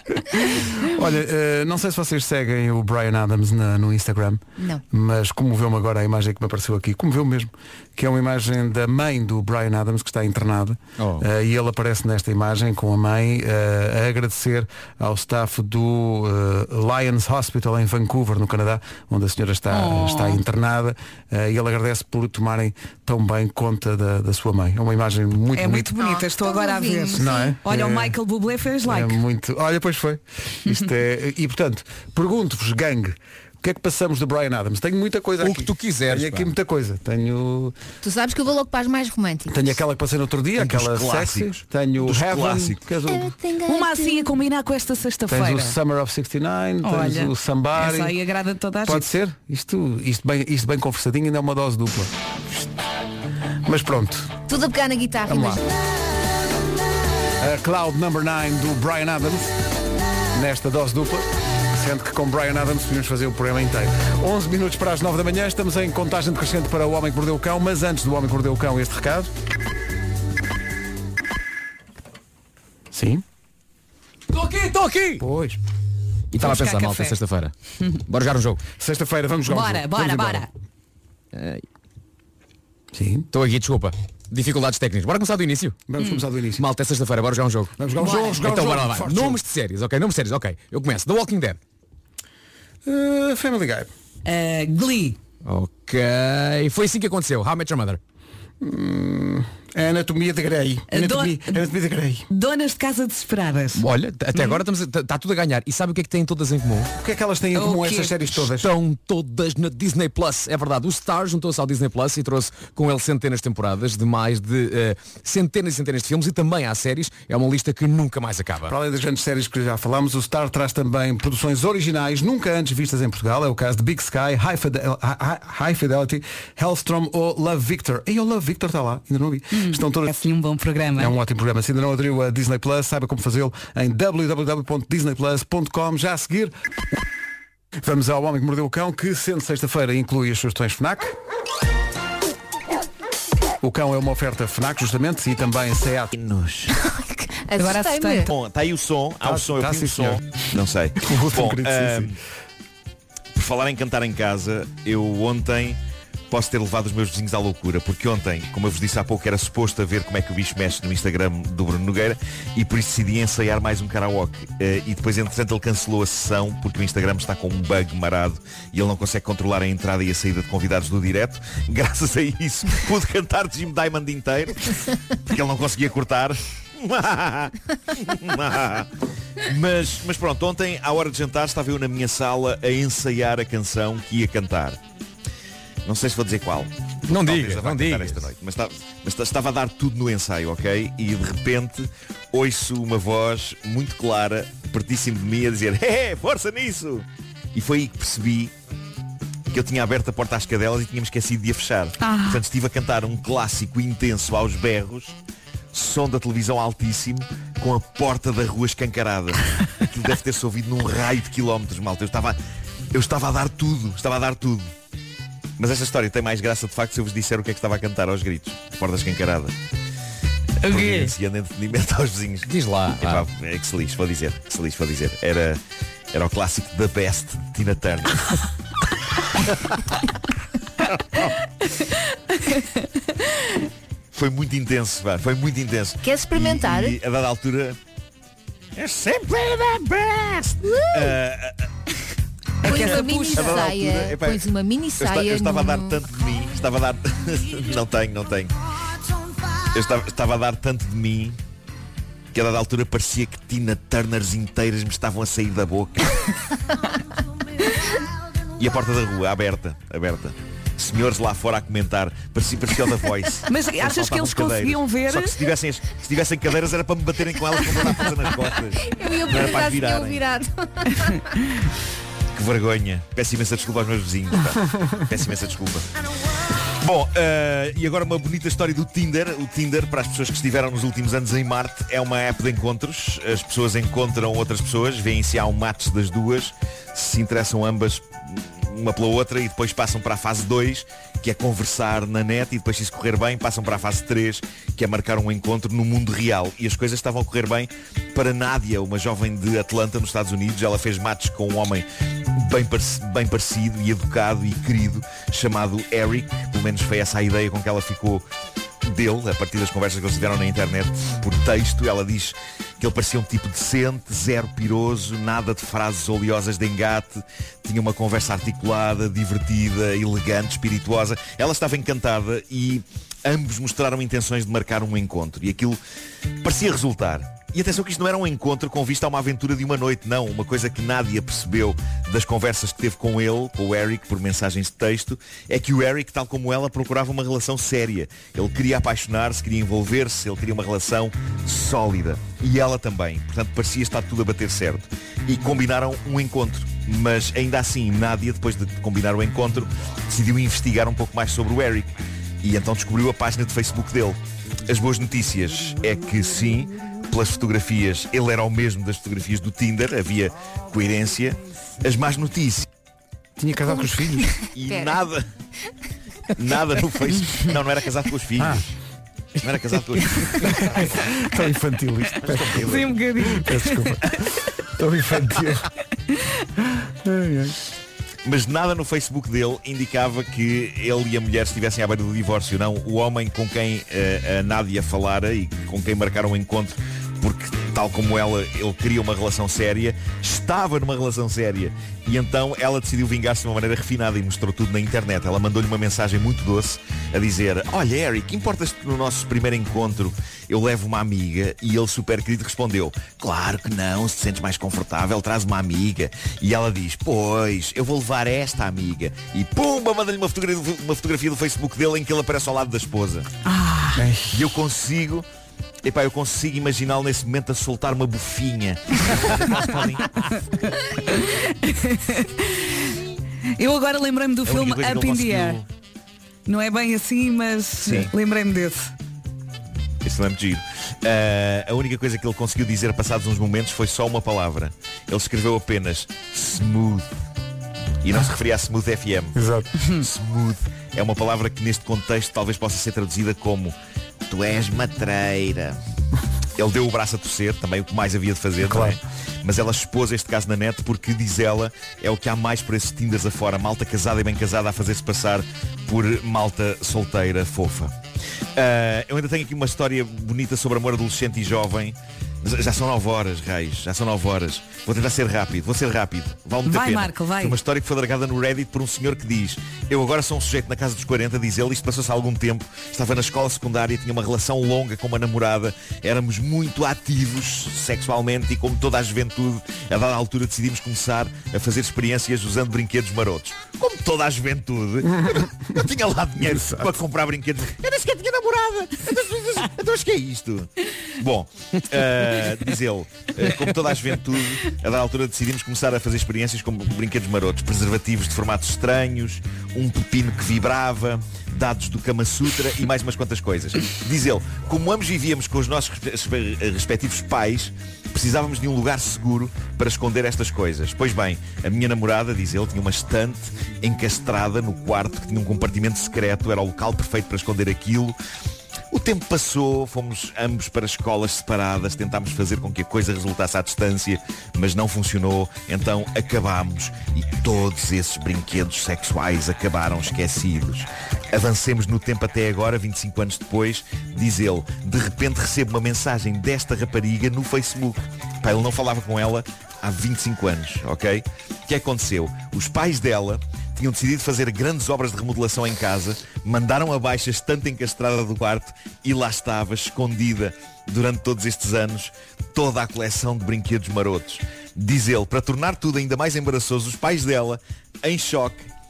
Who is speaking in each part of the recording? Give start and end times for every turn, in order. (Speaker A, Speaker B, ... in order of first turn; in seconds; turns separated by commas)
Speaker A: 0.3-25.9, Speaker B: 11.0-11.2, Speaker C: 19.7-20.4, Speaker C: 25.5-29.2, Speaker D: 26.0-27.5, Speaker A: 27.1-28.1, Speaker A: 28.9-37.7, Speaker B: 35.4-36.5, Speaker D: 38.0-39.7, Speaker A: 39.5-43.3, Speaker E: 40.5-42.9, Speaker D: 43.0-44.3, Speaker C: 43.6-45.8, Speaker A: 45.3-48.1, Speaker C: 46.8-49.0, Speaker A: 48.8-52.1, Speaker A: 53.6-54.3, Speaker D: 54.5-55.6, Speaker A: 55.3-55.6, Speaker A: 57.4-59.5, Speaker A: 60.3-69.3, Speaker A: 72.9-73.2, Speaker B: 74.3-75.2, Speaker A: 75.2-75.6, Speaker B: 76.3-77.5, Speaker C: 76.4-77.2, Speaker B: 78.1-78.6, Speaker A: 78.8-80.5, Speaker C: 79.5-80.5, Speaker B: 81.3-81.6, Speaker A: 82.9-83.3, Speaker B: 83.3-85.8, Speaker A: 85.9-86.6, Speaker B: 86.6-91.6, Speaker A: 87.8-89.4, Speaker A: 92.8-93.9, Speaker C: 94.2-95.2, Speaker B: 95.4-98.0, Speaker A: 98.6-102.2, Speaker C: 100.9-101.6, Speaker C: 102.3-104.6, Speaker B: 103.7-106.9, Speaker A: 107.0-108.7, Speaker C: 107.5-108.1, Speaker B: 108.3-118.7, Speaker A: 118.7-130.1, Speaker C: 129.5-131.1, Speaker A: 131.0-136.5, Speaker A: 137.8-141.1, Speaker A: 143.6-146.1, Speaker E: 146.1-146.7, Speaker D: 146.7-148.3, Speaker C: 147.6-148.3, Speaker E: 148.2-152.2, Speaker A: 149.2-150.2, Speaker A: 151.0-152.1, Speaker E: 153.3-155.8, Speaker E: 156.3-178.9, Speaker E: 179.4-184.8, Speaker E: 185.8-198.5, Speaker B: 187.1-188.3, Speaker E: 199.5-205.2, Speaker C: 202.0-202.4, Speaker E: 205.7-212.4, Speaker E: 212.9-214.7, Speaker E: 215.6-219.5, Speaker C: 220.6-221.1, Speaker E: 220.6-225.6, Speaker B: 222.4-223.3, Speaker E: 226.1-228.4, Speaker E: 234.1-237.8, Speaker D: 236.0-237.0, Speaker E: 238.7-241.7, Speaker D: 240.7-241.2, Speaker C: 242.6-243.6, Speaker D: 242.6-246.0, Speaker E: 242.7-248.5, Speaker E: 249.7-251.4, Speaker E: 252.3-256.3, Speaker E: 258.6-270.2, Speaker C: 263.5-265.5, Speaker D: 268.8-271.3, Speaker E: 272.3-275.9, Speaker E: 276.7-308.2, Speaker E: 308.8-325.8, Speaker E: 326.4-362.7, Speaker A: 363.4-364.3, Speaker D: 363.8-365.0, Speaker E: 364.5-365.2, Speaker E: 366.4-368.6, Speaker A: 368.4-368.6, Speaker E: 369.4-371.0, Speaker A: 370.1-372.6, Speaker E: 372.2-373.0, Speaker C: 372.5-374.0, Speaker A: 373.2-375.7, Speaker A: 377.0-377.6, Speaker E: 378.2-413.3, Speaker C: 413.4-414.0, Speaker A: 413.9-414.5, Speaker E: 414.3-415.2, Speaker E: 415.8-420.2, Speaker C: 421.0-422.9, Speaker C: 423.6-425.6, Speaker E: 424.4-425.6, Speaker C: 426.5-428.9, Speaker E: 427.8-428.1, Speaker E: 430.0-437.1, Speaker E: 438.0-439.4, Speaker A: 439.3-439.7, Speaker E: 439.9-443.7, Speaker E: 444.3-445.8, Speaker E: 446.6-457.9, Speaker A: 448.6-449.0, Speaker E: 458.6-518.1, Speaker C: 466.6-467.6, Speaker A: 485.1-485.4, Speaker A: 486.4-486.9, Speaker E: 518.9-558.6